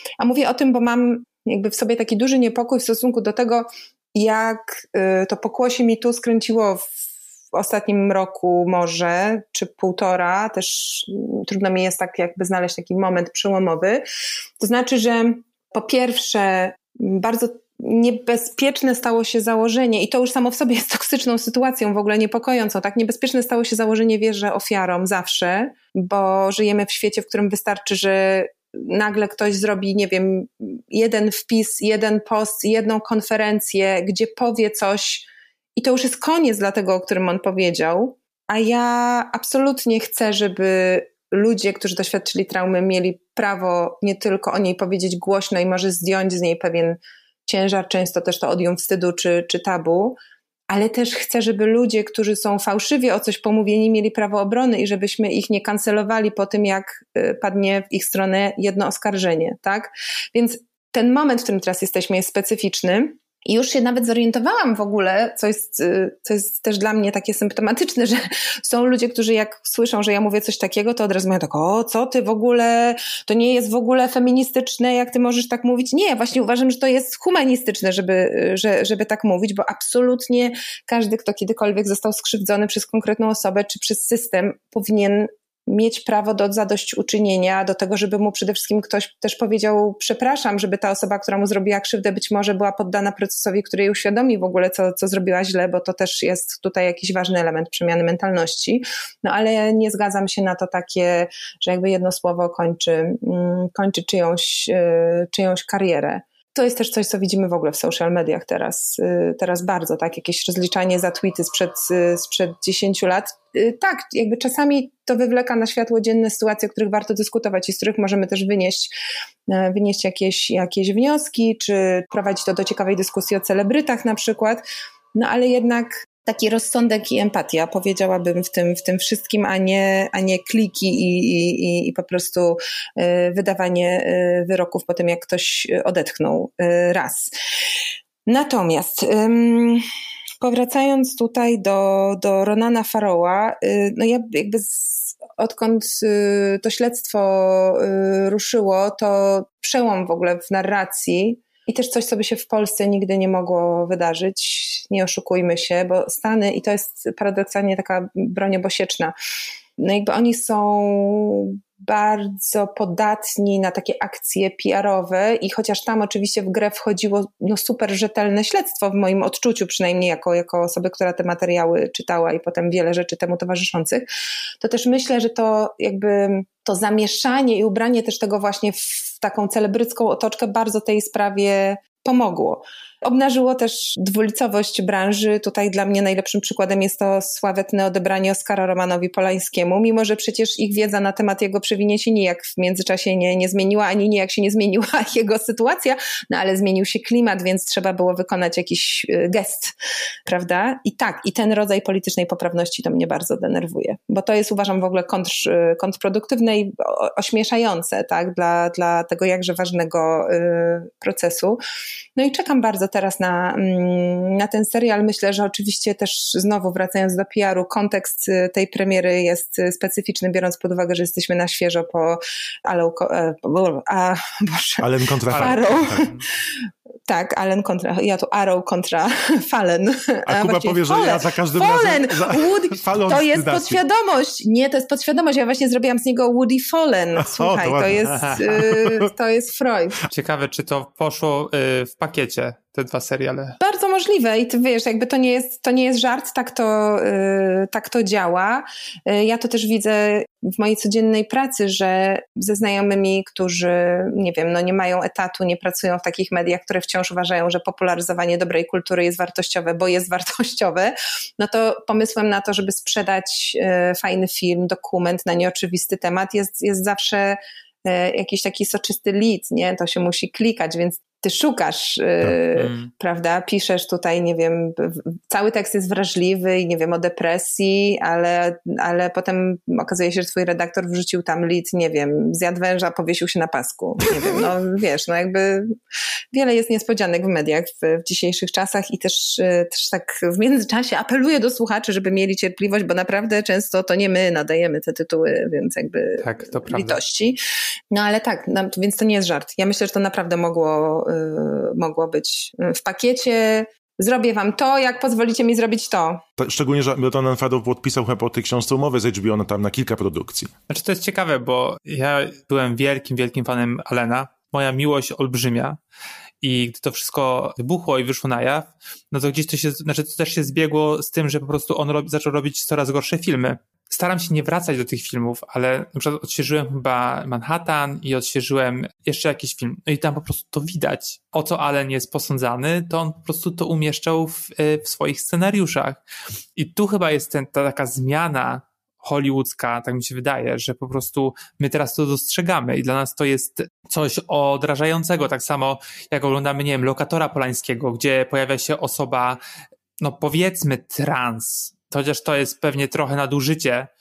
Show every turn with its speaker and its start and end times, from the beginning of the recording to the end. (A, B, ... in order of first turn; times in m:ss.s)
0:00.2-0:06.9 A
0:07.5-0:14.0 A
0:14.6-0:50.2 A
0:50.7-1:58.9 A
1:59.5-2:04.6 A
2:05.2-2:17.3 A
2:18.3-2:19.8 A
2:20.4-2:39.1 A
2:39.8-2:54.1 A
2:54.6-3:19.7 A
3:20.3-3:31.6 A
3:32.2-3:46.1 A
3:44.8-3:46.1 B
3:45.3-3:46.2 C
3:47.1-4:00.0 A
3:50.3-3:53.8 B
3:57.2-3:59.1 B
4:00.1-4:03.6 C
4:03.6-4:45.8 A
4:32.6-4:32.9 C
4:46.3-4:57.4 A
4:56.2-4:57.0 C
4:57.9-5:06.2 A
5:06.4-5:10.5 B
5:10.7-5:15.8 C
5:16.4-5:36.0 C
5:36.6-5:49.4 C
5:50.0-5:53.9 C